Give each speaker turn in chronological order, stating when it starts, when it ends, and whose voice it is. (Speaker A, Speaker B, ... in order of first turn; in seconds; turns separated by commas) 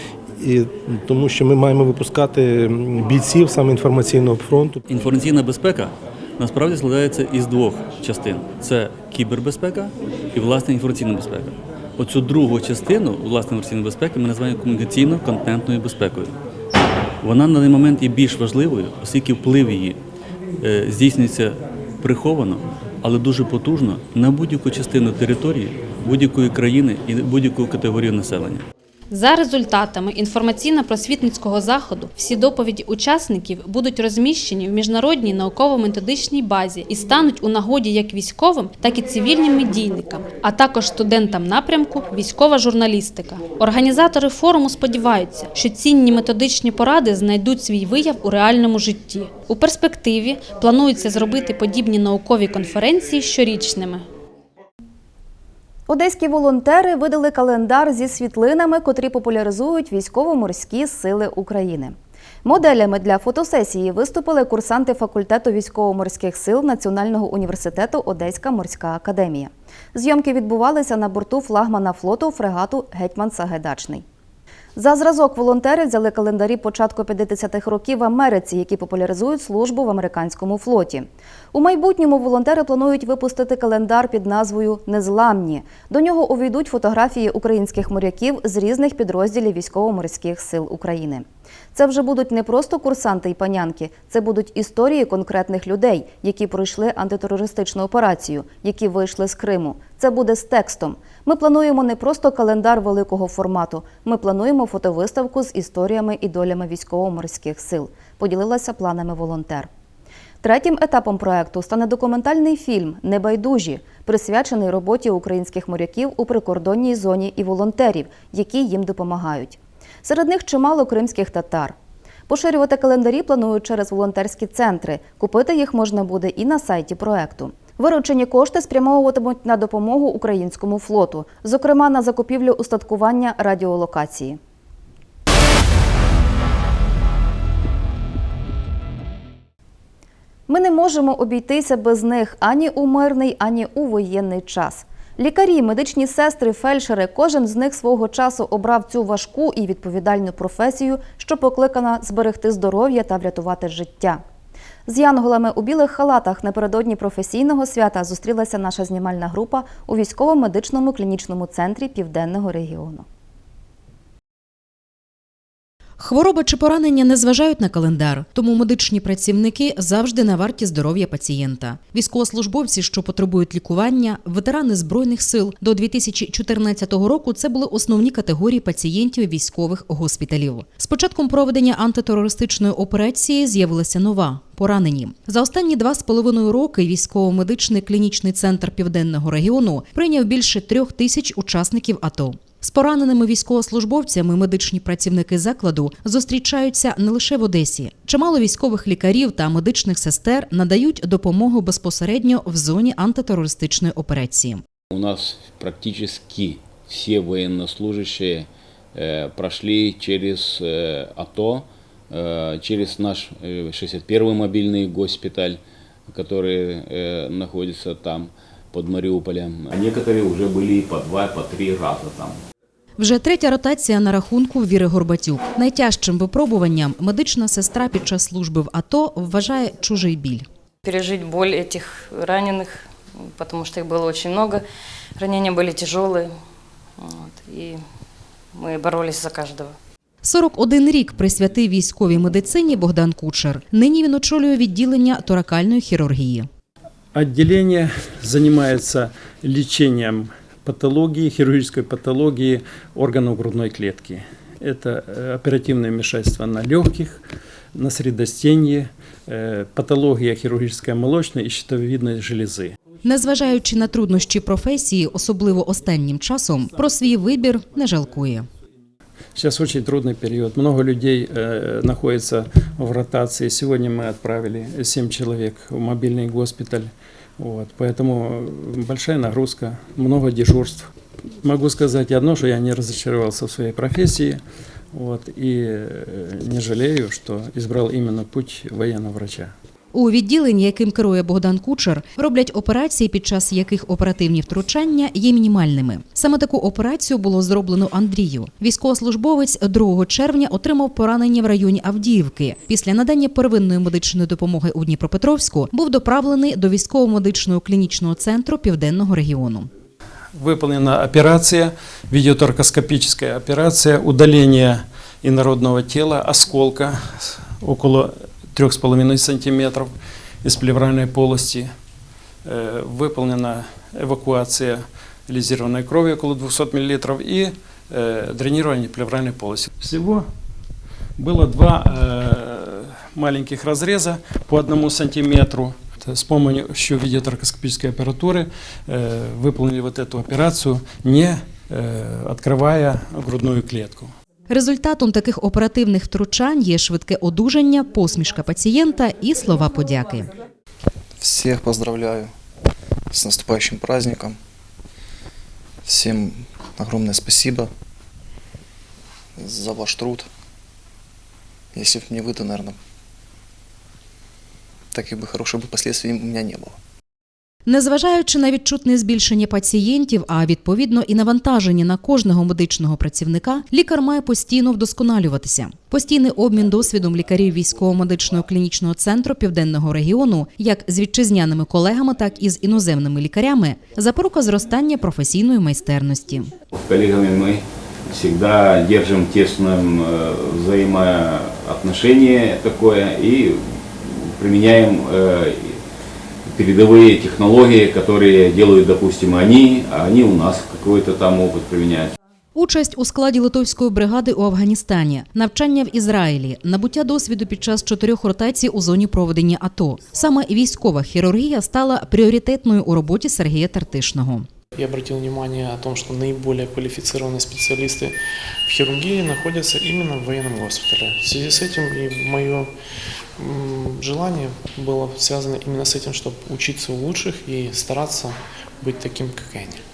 Speaker A: 0.4-4.8, Speaker B: 4.9-16.4, Speaker B: 17.2-20.0, Speaker B: 20.6-28.7, Speaker C: 29.1-54.1, Speaker D: 55.9-74.0, Speaker D: 74.8-109.7, Speaker D: 110.4-121.8, Speaker D: 122.3-134.4, Speaker D: 140.5-154.2, Speaker D: 154.9-163.1, Speaker E: 166.0-204.6, Speaker F: 204.9-222.4, Speaker E: 223.0-230.5, Speaker G: 230.8-234.6, Speaker G: 235.2-236.4, Speaker G: 237.0-237.8, Speaker G: 238.5-239.8, Speaker E: 240.2-246.5, Speaker H: 247.1-262.8, Speaker E: 263.0-268.5, Speaker H: 269.4-289.5, Speaker E: 289.9-309.7, Speaker H: 310.3-321.7, Speaker H: 322.4-330.3, Speaker H: 331.2-344.1, Speaker E: 344.5-350.3, Speaker I: 351.2-352.3, Speaker I: 353.1-354.4, Speaker I: 355.8-357.7, Speaker I: 359.4-360.3, Speaker I: 361.7-362.8, Speaker I: 364.9-366.8, Speaker E: 367.7-386.5, Speaker F: 386.7-395.8, Speaker F: 396.5-402.1, Speaker E: 402.6-414.5, Speaker J: 414.8-422.7, Speaker J: 423.4-429.8